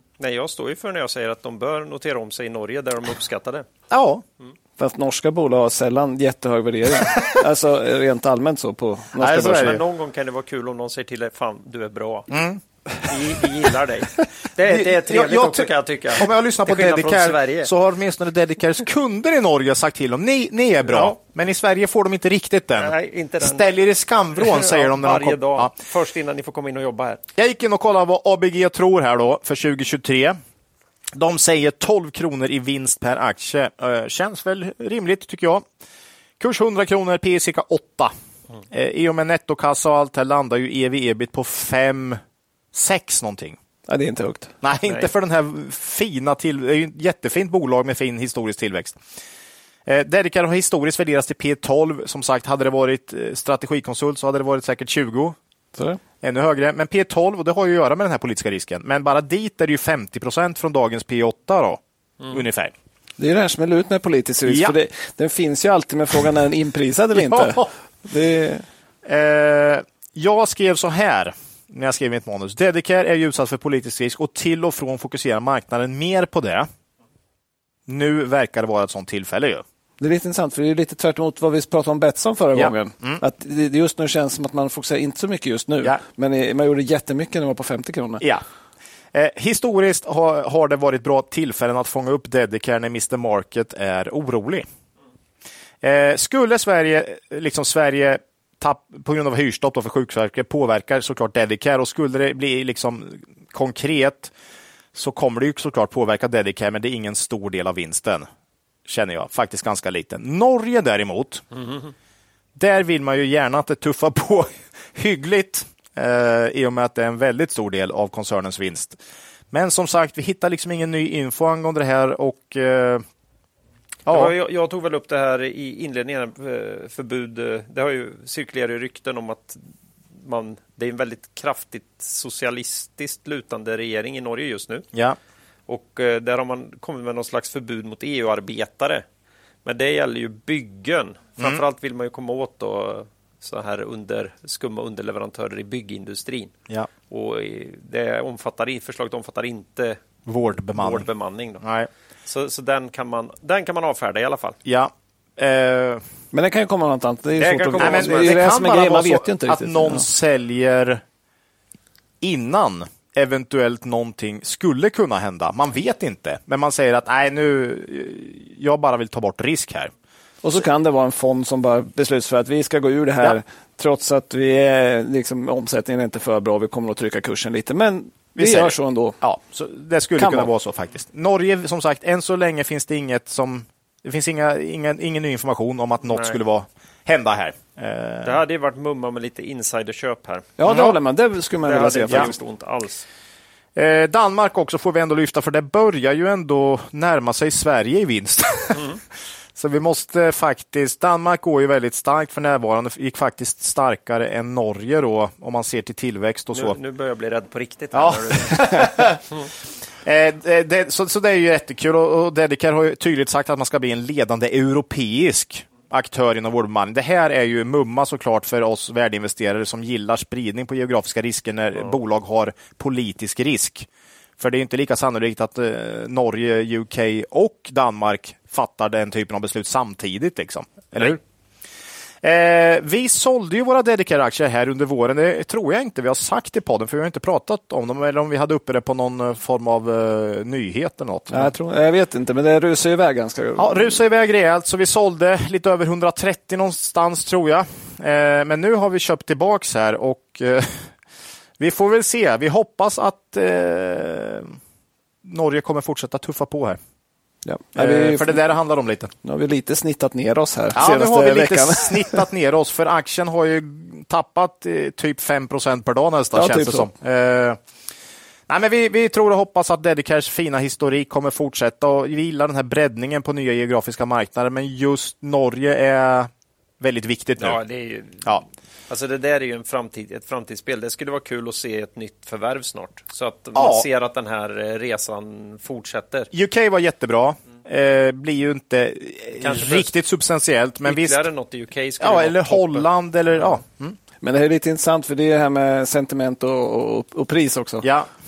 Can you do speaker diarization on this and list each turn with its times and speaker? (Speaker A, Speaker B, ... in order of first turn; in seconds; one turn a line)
Speaker A: 0.2-3.7
Speaker B: 3.9-4.2
Speaker C: 4.8-9.8
Speaker B: 9.2-9.8
Speaker A: 9.4-12.3
Speaker B: 12.3-12.6
Speaker A: 13.0-17.7
Speaker B: 14.6-25.7
Speaker A: 20.9-21.1
Speaker A: 22.8-23.6
Speaker A: 24.4-27.2
Speaker B: 27.4-30.4
Speaker B: 31.1-35.6
Speaker B: 36.4-38.1
Speaker B: 38.7-42.2
Speaker B: 42.7-43.6
Speaker C: 43.9-44.5
Speaker B: 44.6-49.0
Speaker B: 49.9-55.4
Speaker C: 55.7-56.0
Speaker B: 56.2-62.7
Speaker C: 63.2-68.6
Speaker B: 64.5-64.7
Speaker B: 67.3-67.7
Speaker B: 69.0-76.7
Speaker B: 77.9-79.6
Speaker C: 80.0-88.2
Speaker B: 82.5-83.2
Speaker B: 89.1-94.7
Speaker B: 95.8-104.3
Speaker B: 104.9-108.3
Speaker B: 108.8-111.4
Speaker B: 112.5-119.0
Speaker B: 119.5-123.0
Speaker B: 124.0-124.3
Speaker A: 124.1-129.6
Speaker A: 130.2-134.8
Speaker A: 135.7-139.0
Speaker A: 139.6-146.5
Speaker A: 147.1-150.0
Speaker B: 150.2-151.1
Speaker A: 150.7-151.6
Speaker B: 151.6-151.9
Speaker A: 152.3-154.6
Speaker B: 154.6-156.0
Speaker C: 156.3-160.1
Speaker A: 157.4-158.4
Speaker B: 157.8-161.0
Speaker B: 162.2-169.9
Speaker C: 170.4-179.2
Speaker B: 178.3-188.4
Speaker C: 180.2-180.5
Speaker A: 186.1-186.4
Speaker A: 188.2-190.5
Speaker C: 190.6-192.3
Speaker B: 190.7-190.9
Speaker A: 191.6-193.1
Speaker B: 193.8-198.9
Speaker B: 199.5-206.8
Speaker A: 206.5-209.2
Speaker B: 207.9-209.2
Speaker B: 210.0-223.9
Speaker B: 224.4-231.2
Speaker B: 232.2-241.5
Speaker C: 241.3-244.0
Speaker B: 243.6-250.9
Speaker B: 251.6-254.5
Speaker B: 255.2-256.8
Speaker C: 257.4-258.4
Speaker B: 257.7-259.1
Speaker C: 259.2-262.2
Speaker B: 260.7-267.6
Speaker C: 266.3-266.9
Speaker B: 268.5-277.6
Speaker A: 277.4-278.4
Speaker A: 278.9-286.3
Speaker B: 283.5-283.9
Speaker B: 286.3-291.2
Speaker A: 289.4-289.9
Speaker A: 290.8-292.9
Speaker B: 292.0-293.9
Speaker C: 294.2-297.9
Speaker B: 297.8-298.1